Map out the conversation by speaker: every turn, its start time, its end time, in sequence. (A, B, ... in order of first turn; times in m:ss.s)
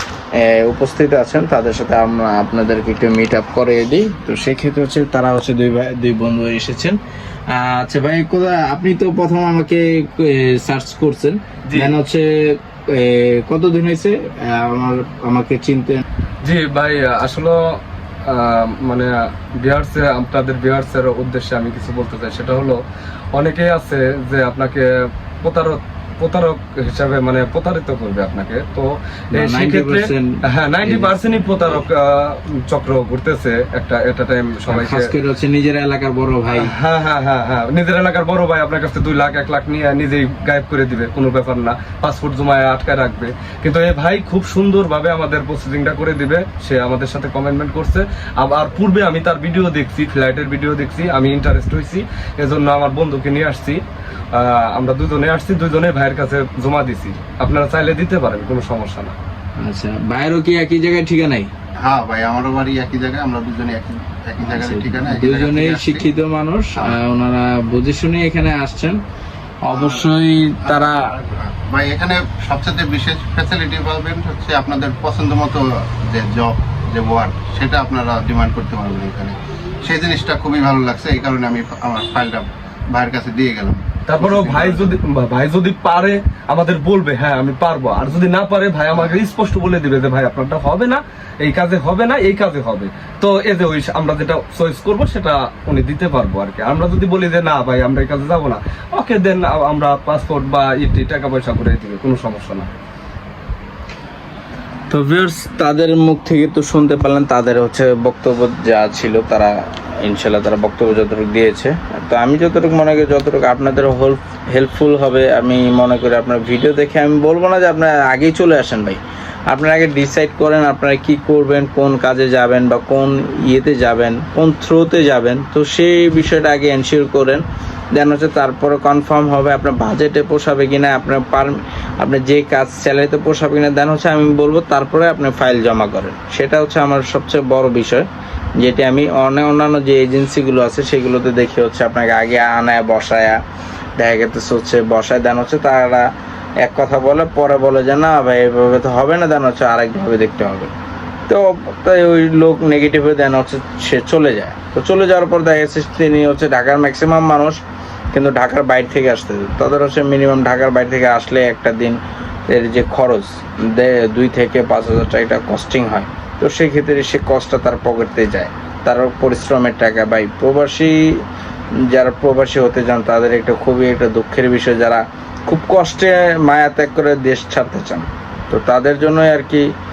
0:00.4-0:07.0 A
0:07.5-0:16.0 A
0:11.6-0:11.9 B
0:16.4-0:22.8 B
0:23.3-0:24.8 B
0:25.4-0:35.1 B
0:29.3-0:31.5 A
0:34.7-0:36.7 A
0:36.5-0:53.8 B
0:54.3-0:59.1 B
0:59.6-1:01.5 A
1:01.8-1:06.1 C
1:04.4-1:09.0 A
1:09.6-1:11.1 A
1:09.7-1:10.1 C
1:10.6-1:25.0 C
1:24.1-1:42.7 B
1:28.9-1:29.2 C
1:44.9-2:07.4 A
2:07.9-2:18.0 A
2:18.6-2:23.4 A
2:24.0-2:26.0 A
2:26.6-2:30.7 A
2:31.3-2:37.6 A
2:38.1-2:42.0 A
2:42.5-2:51.2 A
2:51.9-2:59.6 A